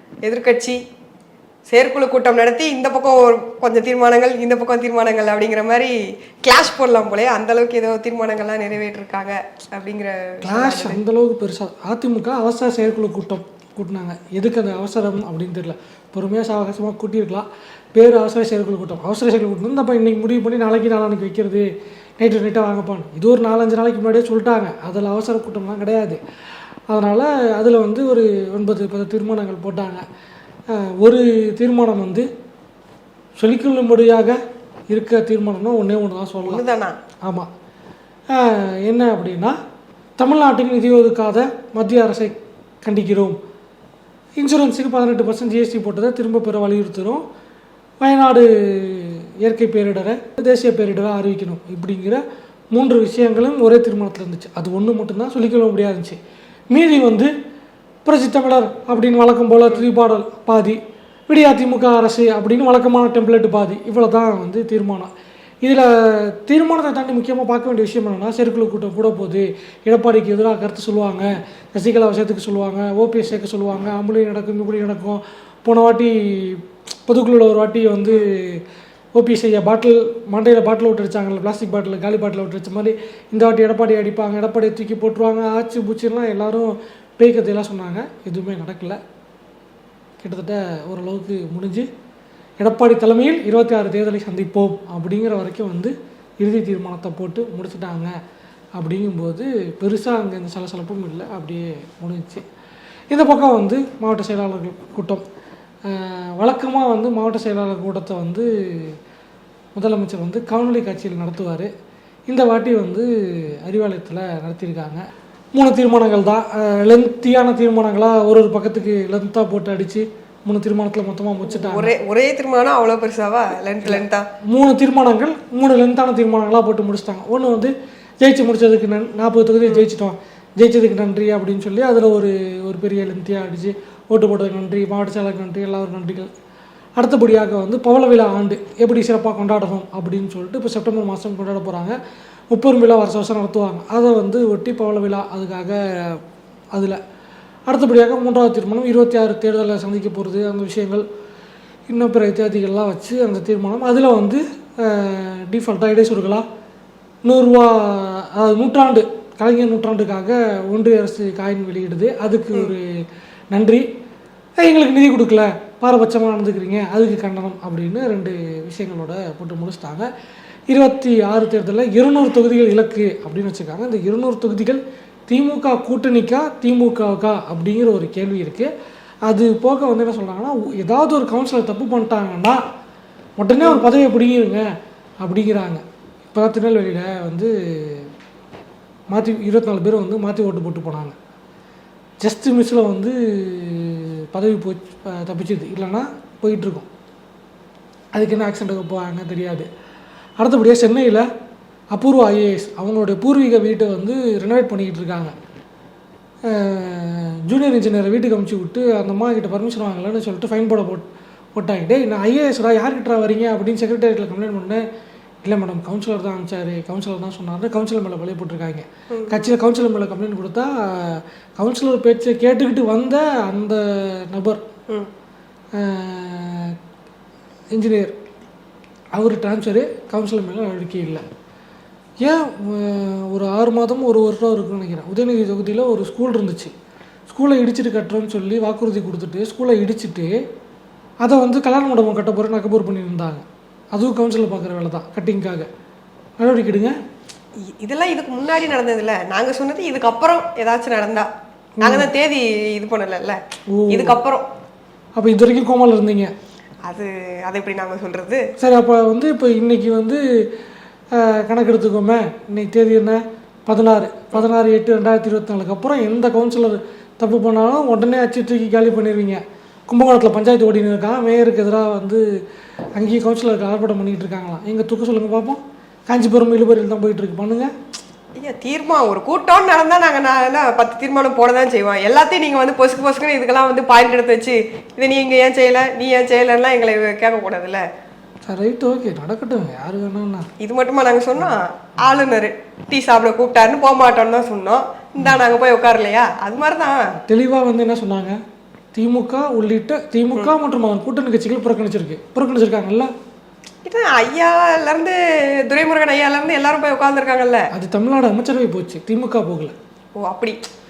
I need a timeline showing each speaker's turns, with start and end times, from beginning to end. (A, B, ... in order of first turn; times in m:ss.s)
0:00.2-0:00.8 A
0:01.7-0:11.0 A
0:10.4-0:21.7 B
0:22.2-0:26.2 B
0:26.9-0:30.0 B
0:30.7-0:32.3 B
0:33.4-0:34.4 B
0:34.9-0:36.6 B
0:36.4-0:37.0 A
0:38.3-0:39.6 B
0:40.2-0:43.4 B
0:44.4-0:47.2 B
0:48.0-0:52.2 B
0:52.7-0:56.2 B
0:56.7-0:57.3 B
0:58.0-1:05.1 B
1:05.6-1:18.6 B
1:19.2-1:29.0 B
1:30.2-1:31.9 B
1:32.6-1:38.1 B
1:38.8-1:42.4 B
1:43.1-1:45.2 B
1:45.8-1:49.0 B
1:49.7-1:51.7 B
1:52.3-1:55.0 B
1:55.6-2:01.9 B
2:01.4-2:04.2 A
2:03.8-2:16.3 B
2:17.0-2:22.0 B
2:22.5-2:26.2 B
2:27.7-2:31.0 B
2:31.9-2:36.4 B
2:37.2-2:42.9 B
2:43.5-2:43.8 B
2:44.6-2:50.1 B
2:50.7-2:58.7 B
2:59.2-3:02.6 B
3:03.4-3:04.6 B
3:05.2-3:08.1 B
3:09.1-3:11.1 B
3:12.2-3:16.9 B
3:18.1-3:19.7 B
3:20.4-3:21.3 B
3:21.9-3:25.3 B
3:26.5-3:34.8 B
3:35.4-3:44.6 B
3:39.1-3:39.5 A
3:45.7-3:46.8 B
3:47.7-3:48.1 B
3:49.2-3:51.2 B
3:52.2-3:56.7 B
3:57.3-4:00.3 B
4:01.2-4:05.7 B
4:06.4-4:06.9 B
4:07.8-4:11.3 A
4:11.8-4:12.1 B
4:11.8-4:13.4 A
4:13.7-4:14.2 B
4:13.9-4:14.4 A
4:15.2-4:16.3 B
4:16.8-4:18.4 A
4:18.6-4:20.2 B
4:21.1-4:32.2 B
4:32.9-4:37.7 B
4:38.4-4:47.8 A
4:48.4-4:50.5 B
4:50.6-4:57.0 A
4:57.3-4:58.4 B
4:58.9-5:03.1 B
5:03.8-5:07.7 A
5:07.7-5:09.7 B
5:10.2-5:10.6 A